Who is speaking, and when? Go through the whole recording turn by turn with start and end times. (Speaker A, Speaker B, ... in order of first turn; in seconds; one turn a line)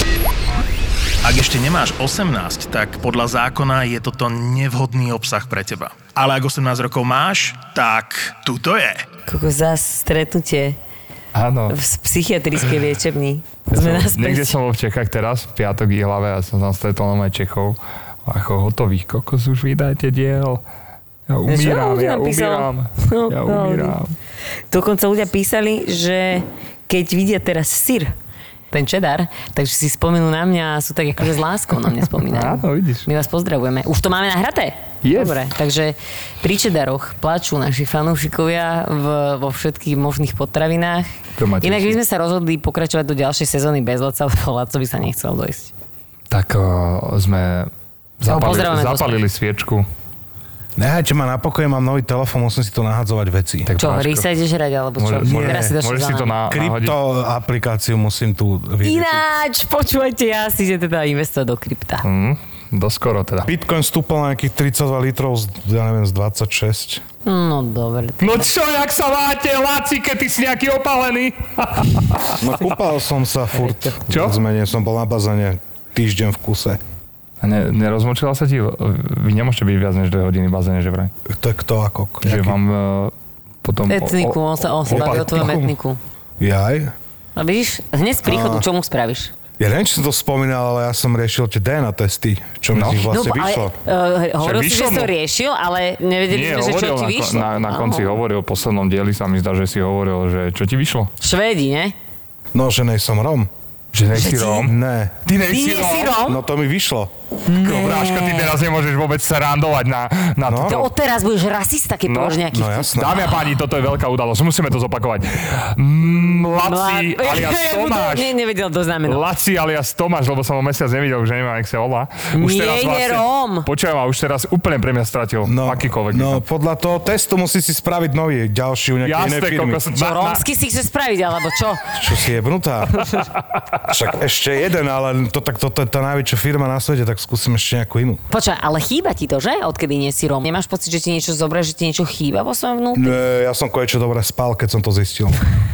Speaker A: 1.2-9.0
Speaker B: 9.2-10.8
Speaker C: 11.3-11.8
Speaker B: 11.7-14.6
Speaker C: 13.7-20.6
Speaker C: 21.3-24.1
Speaker B: 21.5-24.0
Speaker B: 24.7-28.1
Speaker B: 28.7-41.1
Speaker C: 32.3-33.1
Speaker C: 35.0-35.4
Speaker C: 41.4-42.0
Speaker B: 41.6-45.7
Speaker C: 46.3-47.7
Speaker C: 48.2-49.9
Speaker B: 48.2-49.2
Speaker D: 50.8-53.7
Speaker C: 53.6-54.3
Speaker B: 53.8-56.3
Speaker C: 55.0-57.0
Speaker D: 55.2-55.8
Speaker D: 56.5-59.2
Speaker B: 58.8-62.0
Speaker C: 62.0-63.5
Speaker D: 63.4-67.0
Speaker B: 67.2-68.4
Speaker C: 68.2-72.4
Speaker D: 72.3-76.8
Speaker B: 73.6-74.0
Speaker C: 74.1-74.4
Speaker C: 77.4-81.1
Speaker D: 81.2-82.6
Speaker C: 82.2-83.1
Speaker C: 83.6-85.6
Speaker B: 83.9-86.0
Speaker D: 84.9-85.7
Speaker D: 86.4-86.9
Speaker B: 87.3-89.3
Speaker D: 88.2-88.7
Speaker D: 89.6-93.7
Speaker C: 92.7-93.1
Speaker B: 93.1-98.1
Speaker C: 94.4-95.1
Speaker C: 96.3-101.1
Speaker B: 101.2-101.9
Speaker D: 102.5-103.5
Speaker C: 103.9-104.7
Speaker B: 104.2-104.6
Speaker D: 104.5-105.2
Speaker C: 105.2-106.2
Speaker B: 105.4-106.4
Speaker D: 106.2-107.1
Speaker B: 107.5-108.5
Speaker C: 107.6-110.9
Speaker D: 110.4-110.8
Speaker B: 110.6-113.3
Speaker C: 112.1-118.3
Speaker D: 112.5-113.2
Speaker B: 116.4-119.2
Speaker C: 119.0-126.4
Speaker B: 122.3-123.7
Speaker D: 125.4-129.8
Speaker C: 129.0-130.4
Speaker B: 129.9-132.0
Speaker D: 131.9-133.1
Speaker B: 132.9-133.2
Speaker D: 133.8-138.2
Speaker B: 138.3-143.2
Speaker D: 142.9-145.4